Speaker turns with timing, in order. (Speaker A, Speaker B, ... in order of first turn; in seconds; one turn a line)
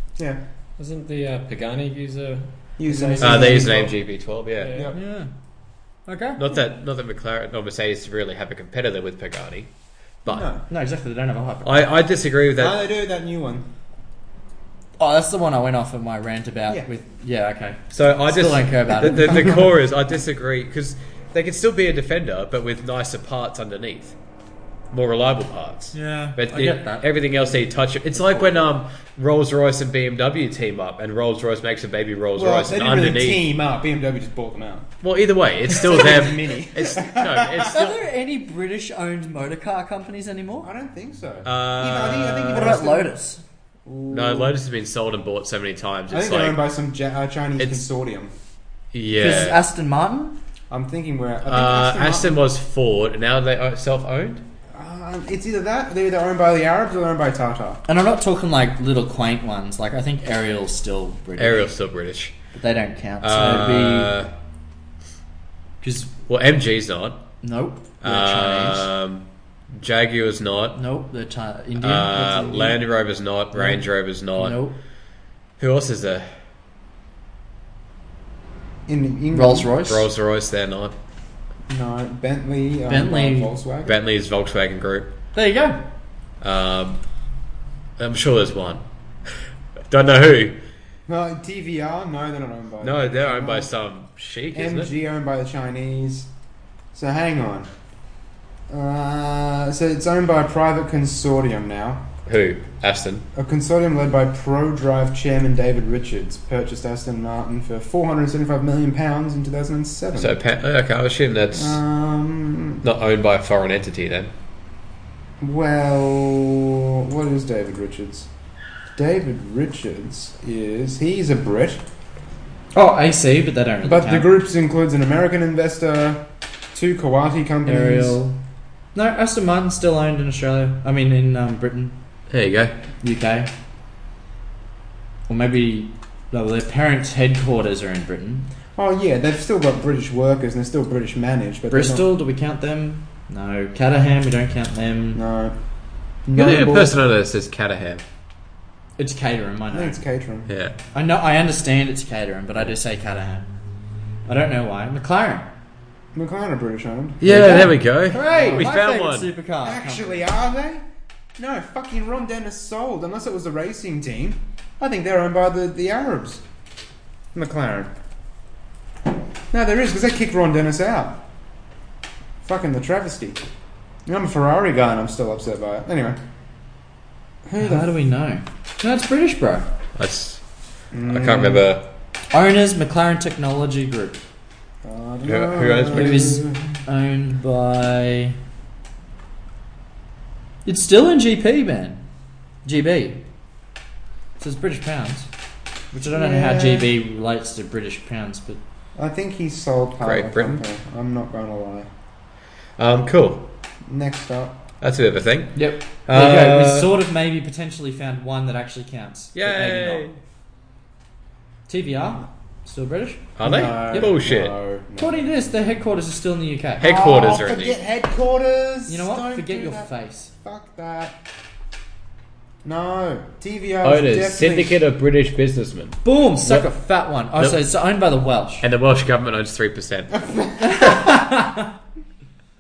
Speaker A: 0.8-3.8
Speaker B: 2.8-4.0
Speaker C: 3.2-4.8
Speaker A: 4.6-4.9
Speaker B: 4.7-5.0
Speaker D: 4.9-5.3
Speaker D: 6.1-6.4
Speaker C: 6.4-9.7
Speaker C: 10.2-10.5
Speaker B: 10.3-10.7
Speaker D: 10.7-11.8
Speaker C: 11.6-12.8
Speaker B: 12.6-13.7
Speaker D: 15.0-19.6
Speaker C: 17.9-24.2
Speaker C: 24.9-33.4
Speaker D: 25.9-27.1
Speaker B: 28.3-28.6
Speaker B: 32.4-34.9
Speaker C: 35.0-38.0
Speaker B: 35.7-37.8
Speaker D: 37.7-40.7
Speaker B: 40.6-43.1
Speaker C: 41.5-42.8
Speaker D: 42.5-43.4
Speaker B: 43.9-44.6
Speaker C: 44.1-46.6
Speaker B: 46.1-48.3
Speaker C: 47.6-47.9
Speaker C: 48.9-49.6
Speaker D: 49.2-50.4
Speaker B: 50.7-52.4
Speaker C: 51.5-54.4
Speaker B: 54.8-57.8
Speaker D: 57.9-61.7
Speaker C: 61.4-62.4
Speaker D: 62.5-64.1
Speaker C: 63.2-64.3
Speaker D: 65.8-66.1
Speaker C: 66.3-67.2
Speaker D: 67.4-68.9
Speaker C: 68.0-70.8
Speaker D: 70.8-72.8
Speaker C: 71.8-74.6
Speaker D: 74.4-74.8
Speaker C: 75.6-76.3
Speaker B: 78.9-79.7
Speaker D: 79.3-80.1
Speaker C: 79.9-81.0
Speaker B: 81.7-84.0
Speaker D: 82.9-83.5
Speaker C: 83.8-85.1
Speaker D: 85.3-85.8
Speaker C: 86.4-87.0
Speaker C: 88.0-89.4
Speaker C: 89.9-90.6
Speaker B: 91.1-93.7
Speaker C: 92.8-94.9
Speaker B: 94.5-96.3
Speaker B: 96.9-97.7
Speaker B: 98.7-102.1
Speaker C: 102.3-103.2
Speaker B: 103.3-110.4
Speaker C: 110.1-111.8
Speaker B: 111.5-112.8
Speaker C: 112.8-114.3
Speaker B: 115.4-118.3
Speaker B: 119.0-121.8
Speaker D: 122.7-124.3
Speaker B: 123.8-128.2
Speaker D: 127.7-128.4
Speaker D: 128.9-131.9
Speaker C: 132.3-132.8
Speaker D: 133.0-133.5
Speaker D: 135.3-138.5
Speaker B: 138.8-142.1
Speaker D: 141.7-145.2
Speaker B: 145.1-145.6
Speaker B: 146.3-147.0
Speaker C: 146.3-148.0
Speaker D: 149.0-150.0
Speaker B: 149.7-150.5
Speaker C: 150.5-150.8
Speaker D: 150.9-153.5
Speaker D: 154.3-155.5
Speaker B: 156.1-158.7
Speaker C: 157.2-159.3
Speaker D: 157.2-160.3
Speaker B: 159.6-160.8
Speaker B: 161.4-166.4
Speaker B: 167.3-167.9
Speaker B: 169.5-171.2
Speaker B: 172.4-173.4
Speaker B: 174.1-176.2
Speaker B: 177.5-177.9
Speaker D: 177.6-179.7
Speaker C: 180.0-180.4
Speaker B: 180.9-181.7
Speaker C: 181.1-181.9
Speaker D: 182.3-184.2
Speaker B: 184.8-186.6
Speaker C: 185.2-186.3
Speaker D: 185.9-188.4
Speaker D: 190.7-192.0
Speaker D: 192.7-193.2
Speaker D: 194.4-195.3
Speaker D: 195.9-198.6
Speaker B: 196.1-196.9
Speaker B: 199.0-201.9
Speaker C: 200.0-200.6
Speaker C: 202.8-203.5
Speaker B: 203.9-204.6
Speaker C: 204.8-206.9
Speaker D: 205.6-210.1
Speaker C: 209.3-210.2
Speaker D: 211.7-213.3
Speaker C: 213.4-214.6
Speaker B: 213.4-215.3
Speaker D: 213.9-214.2
Speaker D: 215.0-216.9
Speaker C: 216.8-217.8
Speaker B: 216.8-219.9
Speaker D: 218.9-220.3
Speaker B: 220.4-221.2
Speaker B: 222.6-224.7
Speaker C: 223.8-226.7
Speaker D: 226.0-228.7
Speaker C: 228.6-230.2
Speaker B: 230.2-231.1
Speaker D: 230.6-231.7